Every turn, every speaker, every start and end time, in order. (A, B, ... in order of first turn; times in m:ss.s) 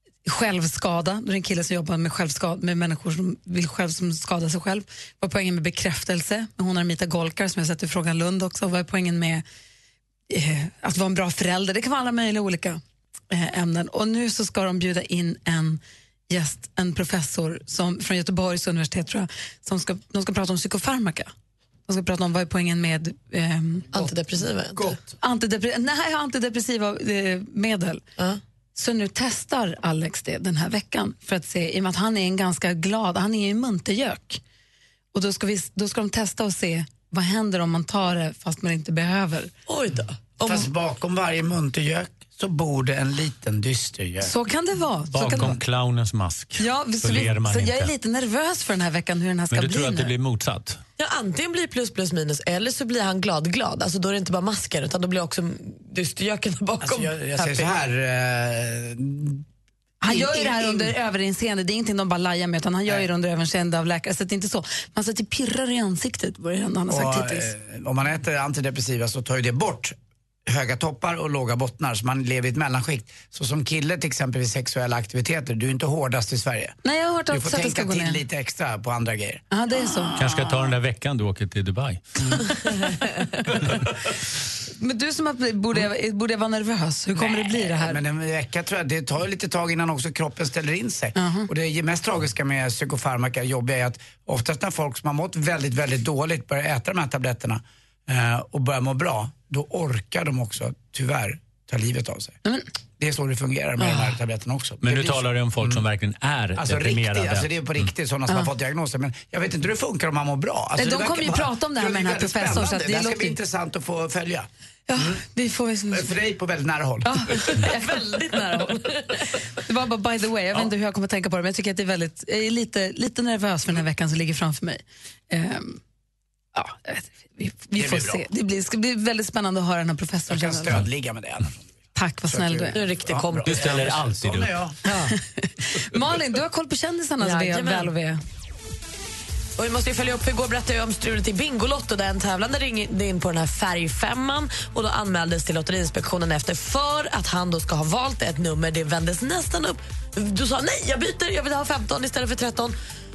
0:00.2-0:09.4 A
0:10.3-0:12.8 A
0:13.3-0:21.3 A
0:21.9-0:23.9 A
0:23.9-0:24.9 B
0:25.1-0:28.0 A
0:28.7-0:34.4 A
0:35.1-0:39.5 A
0:39.7-0:40.7 B
0:40.4-0:44.3 C
0:44.2-0:45.6 A
0:45.1-0:47.9 D
0:46.6-0:50.1 A
0:49.5-0:50.8 D
0:51.0-0:57.7 B
0:56.8-0:59.4 C
1:00.0-1:07.5 A
1:00.2-1:00.7 B
1:06.9-1:09.9 C
1:10.4-1:16.8 C
1:16.8-1:18.2 A
1:17.3-1:19.4 C
1:19.5-1:20.2 A
1:19.9-1:20.7 C
1:20.2-1:22.0 D
1:24.8-1:28.0 A
1:27.2-1:42.4 C
1:31.2-1:31.5 A
1:43.0-1:45.8 C
1:44.8-1:47.9 D
1:46.6-1:55.2 C
1:50.8-1:53.4 A
1:54.9-1:56.1 A
1:55.9-1:57.5 C
1:57.0-1:59.0 A
1:57.7-1:58.7 B
1:59.6-2:05.8 A
2:06.5-2:10.8 A
2:07.7-2:08.2 C
2:10.3-2:11.7 C
2:11.9-2:12.8 A
2:12.3-2:14.8 C
2:12.7-2:13.8 B
2:13.4-2:14.5 D
2:14.8-2:15.1 B
2:14.9-2:18.2 A
2:17.2-2:17.9 B
2:19.6-2:32.8 B